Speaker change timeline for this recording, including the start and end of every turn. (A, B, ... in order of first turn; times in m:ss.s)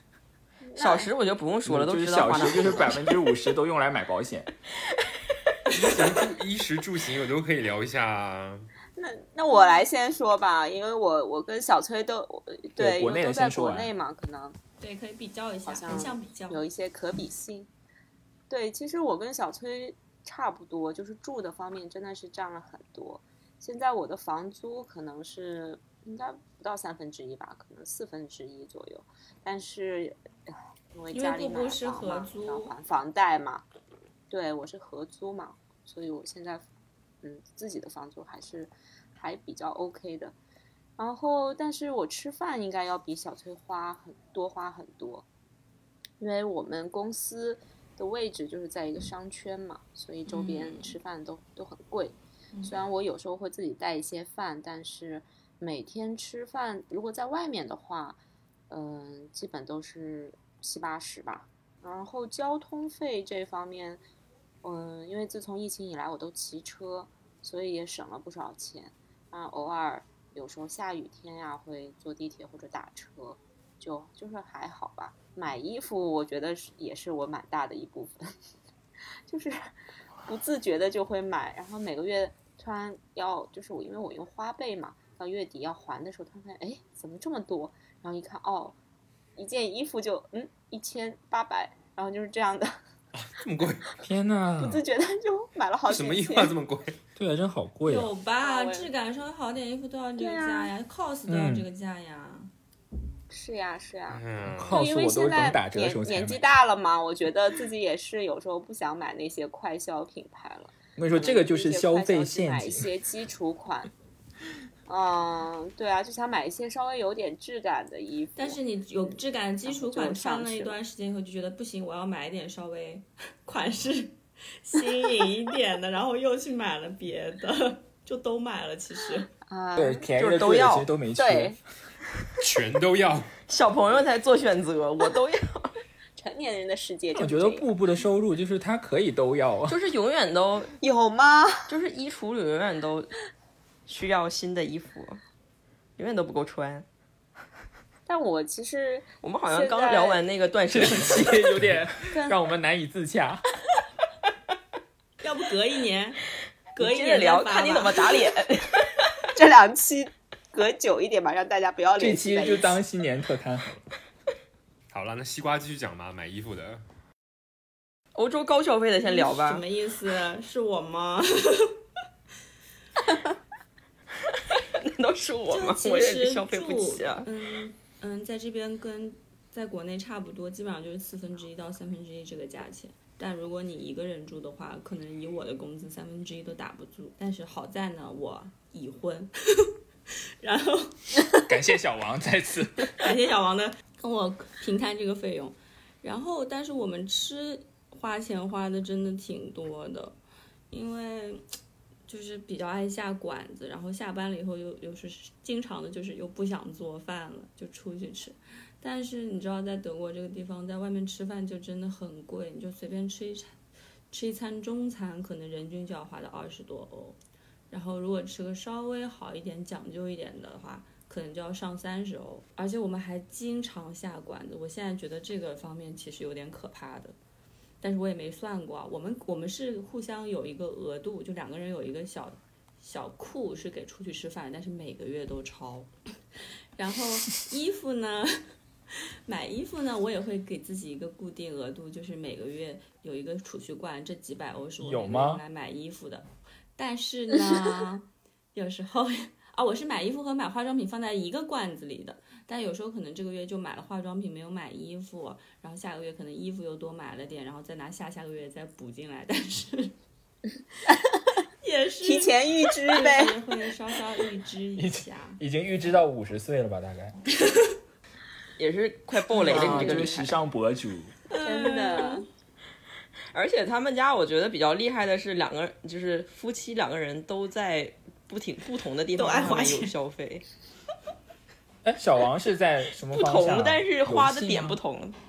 0:00.6-0:01.1 A
0:00.8-0:03.1 B
0:01.6-0:04.5 C
0:05.7-0:08.7 D
0:09.0-0:14.6 A
0:12.8-0:13.9 C
0:14.8-0:16.7 E
0:15.7-0:17.7 A
0:18.5-0:33.6 A
0:31.1-0:32.7 E
0:34.3-0:36.6 A
0:37.2-0:40.4 A
0:41.0-0:45.2 A
0:46.2-1:04.0 A
0:50.3-0:51.0 E
1:04.6-1:18.3 A
1:19.3-1:19.6 A
1:20.2-1:28.8 A
1:29.4-1:32.7 A
1:33.1-1:33.9 D
1:34.0-1:34.8 C
1:34.6-1:36.5 A
1:35.9-1:37.0 D
1:37.2-1:38.1 C
1:37.8-1:42.5 E
1:38.4-1:38.9 A
1:40.2-1:40.7 A
1:41.3-1:41.7 C
1:43.3-1:53.9 A
1:44.1-1:44.8 D
1:44.5-1:46.5 C
1:51.0-1:52.9 C
1:54.9-1:58.6 A
1:58.4-2:09.3 E
1:59.7-2:00.8 A
2:09.5-2:10.1 A
2:09.8-2:11.6 C
2:10.2-2:10.9 B
2:11.1-2:11.6 A
2:12.4-2:13.4 D
2:13.5-2:15.8 B
2:16.2-2:17.7 A
2:17.2-2:19.8 C
2:19.7-2:20.7 B
2:20.8-2:21.7 A
2:21.7-2:23.1 B
2:23.9-2:25.2 B
2:26.0-2:26.8 B
2:28.1-2:30.2 A
2:29.2-2:31.5 B
2:30.7-2:33.4 C
2:32.1-2:32.4 A
2:35.2-2:36.2 E
2:36.8-2:38.2 E
2:36.8-2:39.2 B
2:39.3-2:42.8 A
2:42.0-2:43.9 C
2:44.9-2:46.8 D
2:48.2-2:49.6 B
2:49.0-2:51.8 E
2:54.3-2:57.3 B
2:55.5-3:09.7 E
3:10.4-3:11.0 E
3:11.4-3:13.0 C
3:13.0-3:20.2 E
3:20.7-3:21.4 E
3:22.1-3:33.5 E
3:34.1-3:37.2 E
3:37.7-3:47.2 E
3:47.8-3:55.9 E
3:56.8-3:58.3 E
3:59.3-4:19.9 E
4:04.8-4:05.4 C
4:20.9-4:21.2 A
4:21.6-4:25.4 E
4:22.0-4:23.4 A
4:24.8-4:27.2 C
4:28.6-4:30.3 B
4:29.4-4:31.1 C
4:29.5-4:30.1 A
4:31.3-4:32.2 E
4:31.4-4:32.2 A
4:33.3-4:40.4 B
4:39.2-4:39.9 E
4:41.8-4:44.8 C
4:43.1-4:45.2 B